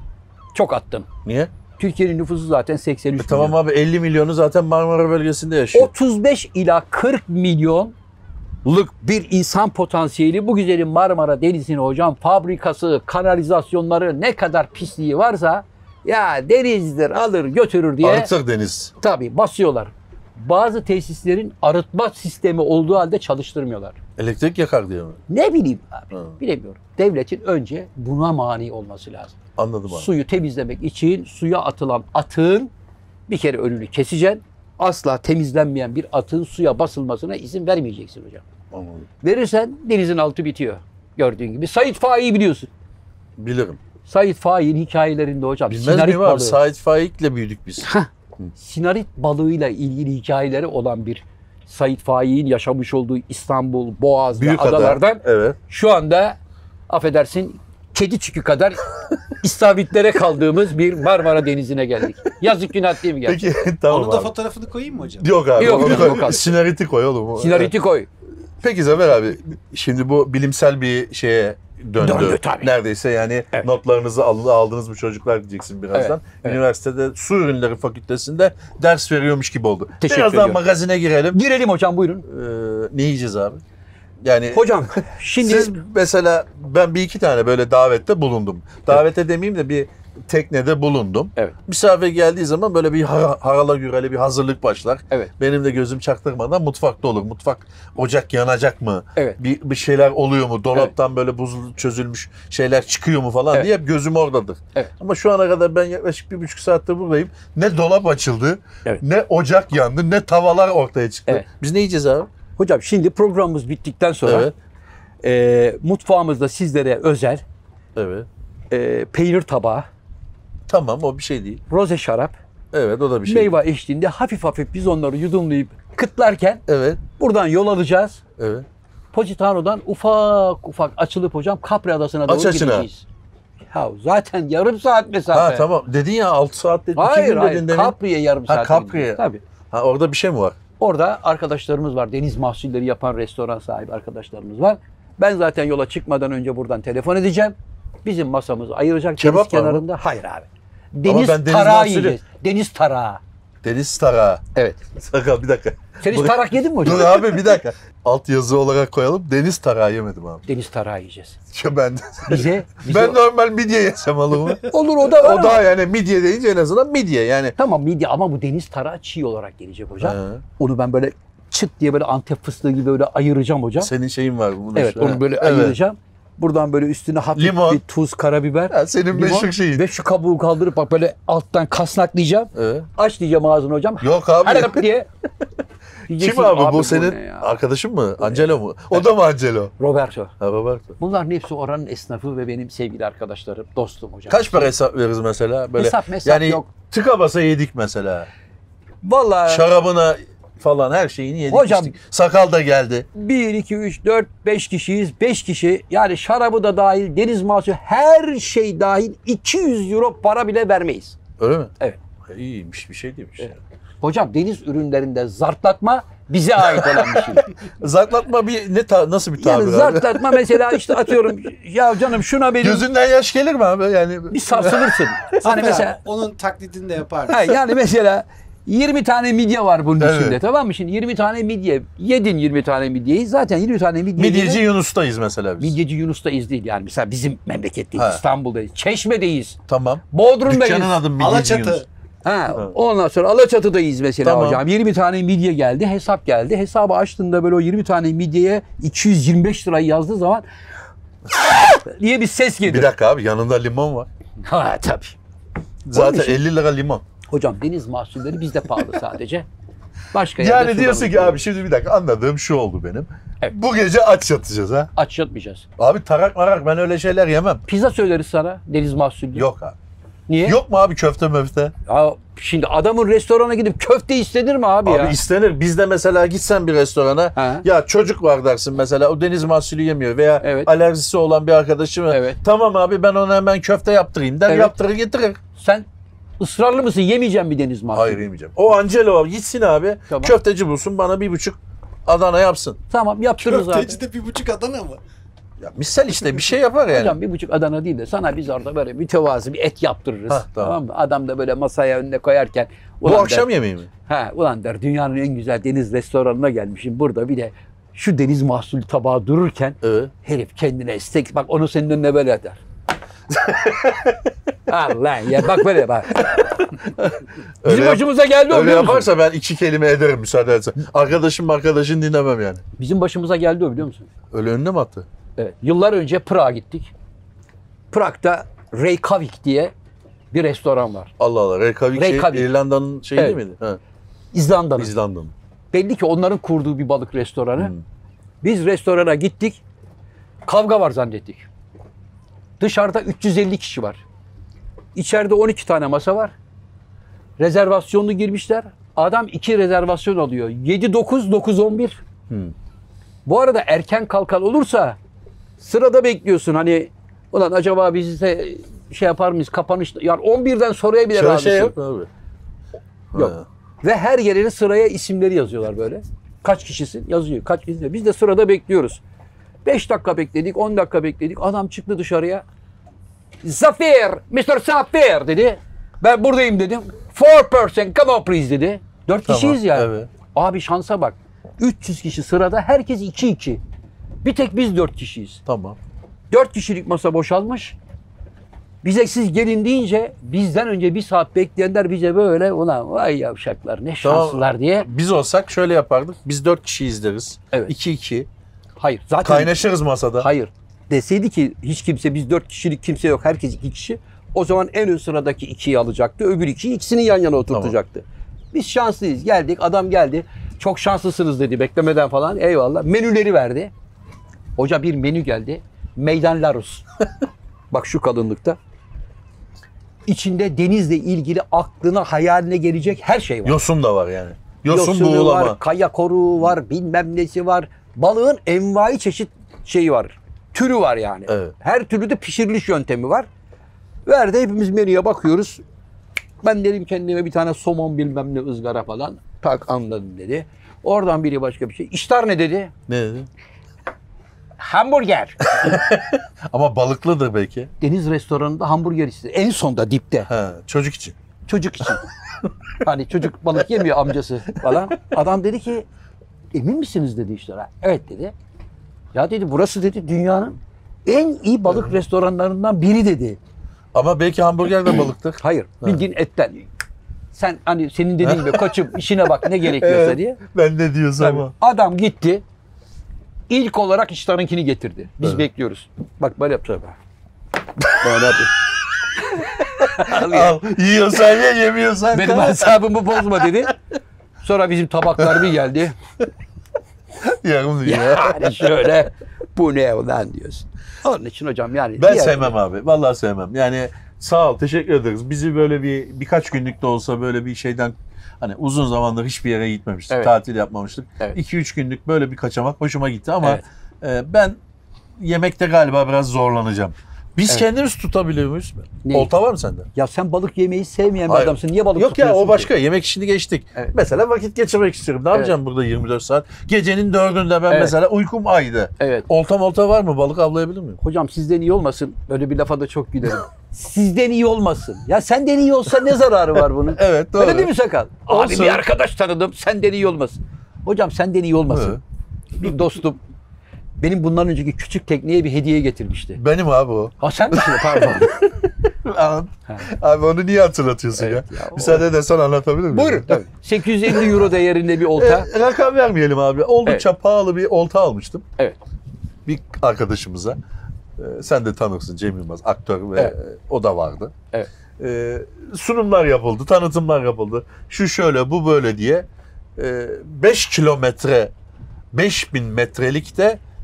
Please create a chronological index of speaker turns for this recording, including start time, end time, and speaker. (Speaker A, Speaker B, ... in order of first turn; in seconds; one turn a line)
Speaker A: 0.5-1.1
Speaker B: 1.2-1.5
Speaker A: 1.8-3.6
Speaker B: 3.2-5.9
Speaker A: 5.7-7.9
Speaker A: 8.7-18.3
Speaker B: 18.0-18.9
Speaker A: 19.0-24.0
Speaker B: 24.2-25.2
Speaker A: 25.3-29.4
Speaker B: 29.6-30.1
Speaker A: 29.9-32.7
Speaker A: 33.3-38.5
Speaker B: 38.7-39.1
Speaker A: 39.2-42.7
Speaker B: 43.4-43.8
Speaker A: 44.0-46.6
Speaker B: 45.7-48.5
Speaker A: 47.8-56.4
Speaker B: 54.4-55.6
Speaker A: 56.9-63.4
Speaker B: 63.2-64.3
Speaker C: 63.9-66.2
Speaker B: 65.2-67.7
Speaker A: 65.6-66.5
Speaker A: 67.4-68.1
Speaker B: 68.6-81.4
Speaker A: 72.0-72.7
Speaker A: 75.9-76.6
Speaker A: 80.0-80.6
Speaker A: 81.3-82.3
Speaker B: 82.3-83.6
Speaker B: 84.2-112.3
Speaker A: 84.5-85.7
Speaker A: 112.6-114.5
Speaker B: 114.3-114.5
Speaker A: 115.2-117.4
Speaker B: 118.0-118.3
Speaker A: 118.7-119.9
Speaker B: 120.7-121.6
Speaker A: 121.7-122.4
Speaker B: 122.7-123.5
Speaker A: 123.3-128.2
Speaker B: 126.7-127.0
Speaker B: 128.4-128.7
Speaker A: 129.1-133.1
Speaker B: 132.3-132.9
Speaker A: 133.7-135.7
Speaker B: 135.3-140.6
Speaker A: 137.0-139.4
Speaker A: 140.8-153.2
Speaker B: 149.2-149.8
Speaker B: 151.1-152.2
Speaker B: 153.6-154.4
Speaker A: 154.6-154.8
Speaker B: 155.0-160.4
Speaker A: 156.0-157.4
Speaker A: 160.5-161.4
Speaker B: 161.5-167.6
Speaker A: 162.3-163.2
Speaker A: 164.6-165.7
Speaker A: 167.6-173.9
Speaker B: 170.0-170.4
Speaker B: 173.8-175.8
Speaker A: 174.8-185.1
Speaker B: 177.4-177.8
Speaker B: 178.7-179.9
Speaker B: 182.5-182.9
Speaker B: 184.0-184.9
Speaker A: 186.1-187.5
Speaker B: 186.1-189.7
Speaker A: 188.2-189.1
Speaker A: 189.8-190.3
Speaker B: 190.4-191.0
Speaker A: 191.0-194.7
Speaker B: 194.3-198.3
Speaker A: 195.8-196.7
Speaker A: 199.0-199.7
Speaker B: 199.5-203.1
Speaker A: 201.5-201.9
Speaker A: 203.2-211.2
Speaker B: 211.4-211.7
Speaker B: 212.3-213.6
Speaker A: 213.4-217.5
Speaker B: 216.7-221.1
Speaker A: 219.4-222.8
Speaker B: 222.6-225.0
Speaker A: 224.3-226.0
Speaker C: 225.3-227.5
Speaker A: 227.3-234.6
Speaker B: 230.0-230.4
Speaker B: 234.2-235.8
Speaker A: 235.6-239.6
Speaker B: 237.9-238.2
Speaker B: 239.7-241.8
Speaker A: 240.1-241.0
Speaker C: 241.2-241.9
Speaker A: 242.2-250.4
Speaker B: 244.2-244.6
Speaker A: 251.3-252.9
Speaker B: 252.7-254.1
Speaker A: 254.4-255.2
Speaker B: 255.9-257.0
Speaker A: 255.9-256.4
Speaker A: 257.3-259.5
Speaker A: 260.1-261.4
Speaker B: 260.4-264.9
Speaker A: 265.0-265.7
Speaker B: 265.8-267.6
Speaker A: 267.7-269.5
Speaker B: 269.4-269.8
Speaker A: 270.3-270.6
Speaker B: 270.4-271.7
Speaker A: 271.9-275.2
Speaker B: 274.8-285.4
Speaker A: 277.4-277.6
Speaker A: 280.4-280.7
Speaker A: 282.1-282.4
Speaker A: 284.5-284.7
Speaker A: 285.6-285.9
Speaker A: 286.4-288.2
Speaker B: 287.9-292.8
Speaker A: 290.1-290.4
Speaker A: 292.9-294.0
Speaker C: 293.4-295.0
Speaker B: 295.6-297.2
Speaker A: 296.9-303.5
Speaker B: 300.3-300.8
Speaker B: 303.0-303.9
Speaker A: 304.0-312.6
Speaker B: 309.8-310.1
Speaker B: 313.3-314.2
Speaker A: 314.7-316.6
Speaker B: 316.2-322.6
Speaker A: 317.6-319.1
Speaker A: 322.8-324.1
Speaker B: 324.3-325.1
Speaker A: 325.4-326.9
Speaker A: 327.9-329.7
Speaker A: 330.3-331.1
Speaker B: 331.2-333.8
Speaker A: 331.9-332.5
Speaker A: 334.3-334.9
Speaker B: 334.8-335.3
Speaker A: 335.7-337.7
Speaker A: 338.4-339.6
Speaker A: 340.5-341.5
Speaker A: 342.6-344.0
Speaker A: 344.9-346.3
Speaker A: 347.4-352.0
Speaker A: 353.3-355.0
Speaker A: 355.6-361.7
Speaker B: 361.1-362.1
Speaker B: 363.1-363.4
Speaker A: 363.1-369.0
Speaker A: 369.6-372.4
Speaker A: 373.4-383.6
Speaker B: 379.3-380.1
Speaker A: 384.2-385.4
Speaker B: 385.5-385.8
Speaker A: 386.3-387.8
Speaker A: 388.8-394.9
Speaker B: 394.0-398.3
Speaker A: 398.8-399.6
Speaker B: 399.2-400.3
Speaker A: 400.2-413.7
Speaker B: 407.5-407.8
Speaker A: 414.6-416.9
Speaker A: 417.7-418.6
Speaker A: 420.1-423.6
Speaker B: 423.4-425.6
Speaker A: 424.7-433.3
Speaker B: 431.3-431.5
Speaker A: 434.1-435.6
Speaker A: 436.4-442.7
Speaker B: 442.9-443.3
Speaker A: 444.6-445.8
Speaker B: 445.5-447.7
Speaker A: 447.8-450.3
Speaker B: 450.3-451.2
Speaker A: 451.5-452.0
Speaker A: 452.8-455.9
Speaker B: 454.6-454.9
Speaker A: 456.5-458.3
Speaker A: 459.1-463.4
Speaker B: 461.7-461.9
Speaker B: 463.9-466.1
Speaker A: 465.4-466.7
Speaker A: 467.3-470.4
Speaker B: 468.2-468.8
Speaker B: 469.6-471.5
Speaker A: 471.2-472.4
Speaker A: 473.5-477.0
Speaker B: 477.8-478.4
Speaker A: 477.9-478.6
Speaker A: 479.2-480.6
Speaker B: 479.8-483.5
Speaker A: 482.1-483.7
Speaker A: 484.4-486.0
Speaker B: 485.2-485.5
Speaker B: 487.2-489.0
Speaker A: 487.9-492.5
Speaker B: 492.0-504.6
Speaker B: 505.2-509.9
Speaker A: 509.0-509.3
Speaker A: 509.9-512.7
Speaker B: 511.3-521.0
Speaker A: 517.7-518.0
Speaker A: 519.0-519.3
Speaker A: 521.0-532.0
Speaker B: 526.9-527.7
Speaker B: 528.3-528.8
Speaker B: 531.7-532.0
Speaker A: 532.6-533.2
Speaker A: 534.0-536.4
Speaker B: 536.4-543.4
Speaker A: 537.2-538.5
Speaker A: 541.1-542.1
Speaker A: 542.9-545.5
Speaker B: 544.0-544.5
Speaker B: 545.1-548.5
Speaker B: 549.5-550.6
Speaker B: 551.2-554.3
Speaker B: 555.0-559.3
Speaker B: 559.8-561.5
Speaker B: 562.1-563.6